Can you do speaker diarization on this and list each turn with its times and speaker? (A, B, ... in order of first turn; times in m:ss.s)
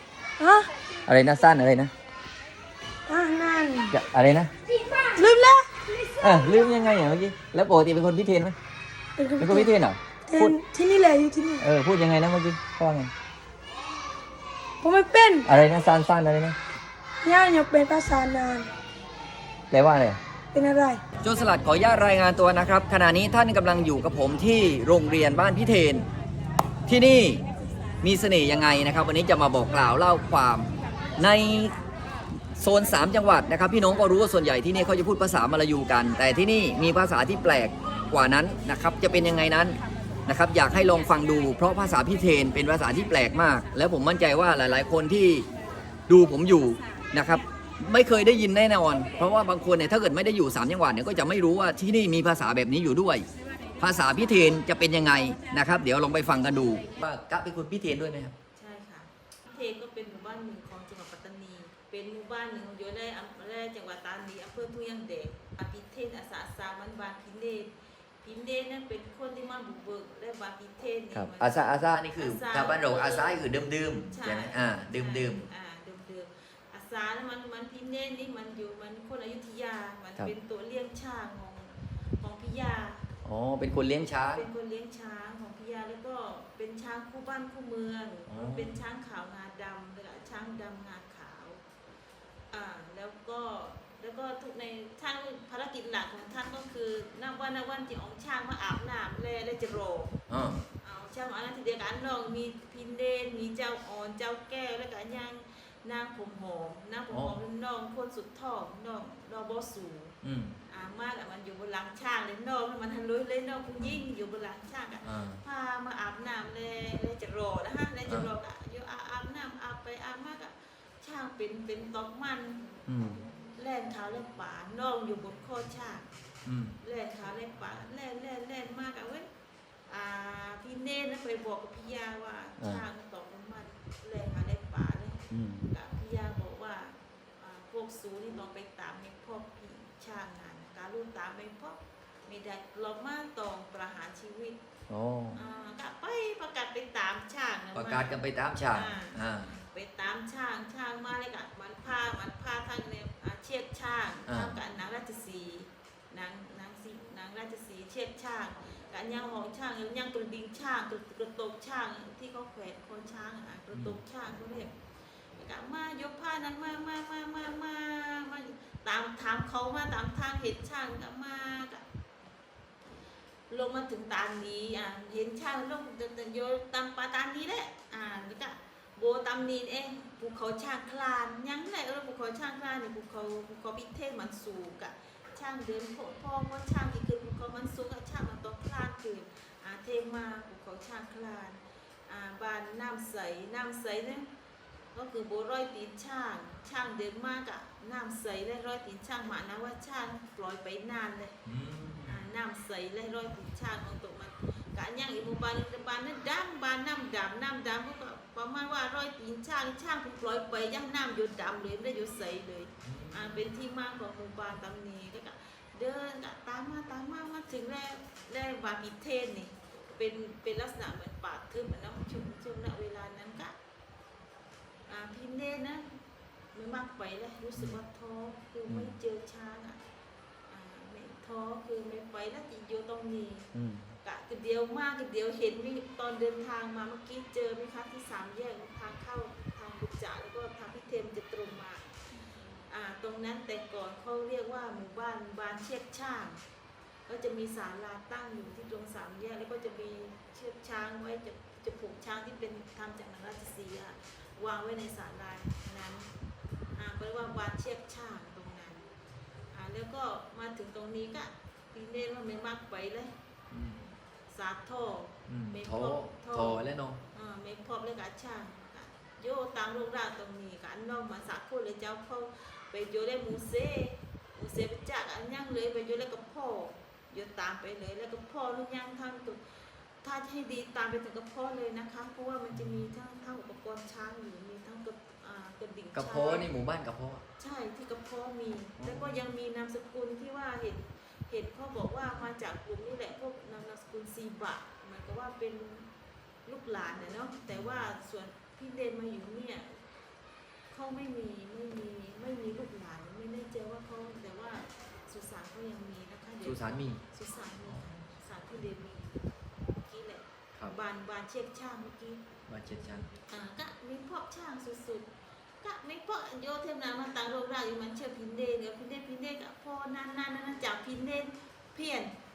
0:00.4-0:00.7 A
0:01.1-0:01.9 B
0:03.1-0:03.9 A
0:03.9-0:04.5 B
0:05.2-0:05.7 A
0:06.2-0:08.6 B
0:09.2-0:09.7 A
0:09.4-0:10.6 B
0:10.3-0:11.6 A
0:11.6-0:13.1 B
0:14.8-0:15.5 A
0:15.4-0:16.6 B
0:17.2-0:18.7 A
0:19.7-0:20.2 B
0:20.5-0:21.0 A
0:21.2-0:26.1 B
0:26.9-0:27.4 B
0:28.0-0:31.8 B
0:32.6-0:45.5 B
0:46.1-0:53.3 B
0:53.8-0:58.3 B
0:58.6-1:13.4 C
1:11.1-1:15.5 B
1:14.1-1:23.1 C
1:23.2-1:24.4 B
1:24.3-1:31.6 C
1:28.3-1:28.8 B
1:32.5-1:40.1 C
1:40.3-1:40.6 B
1:40.8-1:50.2 C
1:47.1-1:47.4 B
1:50.2-1:50.5 B
1:50.7-2:02.6 C
1:55.0-1:55.4 B
1:58.1-1:58.3 B
2:02.9-2:03.2 B
2:03.6-2:06.1 C
2:06.4-2:06.8 B
2:06.8-2:09.3 C
2:09.9-2:24.6 C
2:15.3-2:15.7 B
2:24.9-2:25.4 B
2:25.4-2:28.2 C
2:27.7-2:29.6 B
2:28.7-2:44.8 C
2:34.3-2:34.6 B
2:43.7-2:44.0 B
2:45.4-2:51.8 C
2:53.5-3:14.3 C
3:14.9-3:21.4 C
3:21.4-3:22.2 B
3:22.1-3:43.6 C
3:32.8-3:33.4 B
3:44.9-3:46.0 C
3:46.5-3:49.8 C
3:47.6-3:47.8 B
3:48.7-3:48.9 B
3:50.5-3:53.5 C
3:53.5-3:53.9 B
3:54.0-4:06.4 C
4:07.1-4:16.1 C
4:16.8-4:18.9 C
4:19.5-4:23.1 C
4:23.5-4:23.8 B
4:24.3-4:39.4 C
4:25.3-4:27.0 B
4:40.0-4:46.5 C
4:42.5-4:42.8 B
4:45.9-4:47.2 B
4:47.4-4:55.9 C
4:48.8-4:49.2 B
4:56.5-4:59.8 C
4:57.5-4:57.9 B
5:00.7-5:09.3 C
5:06.4-5:07.0 B
5:07.6-5:08.0 B
5:09.8-5:12.3 C
5:12.5-5:13.1 B
5:13.2-5:15.1 C
5:15.6-5:22.2 C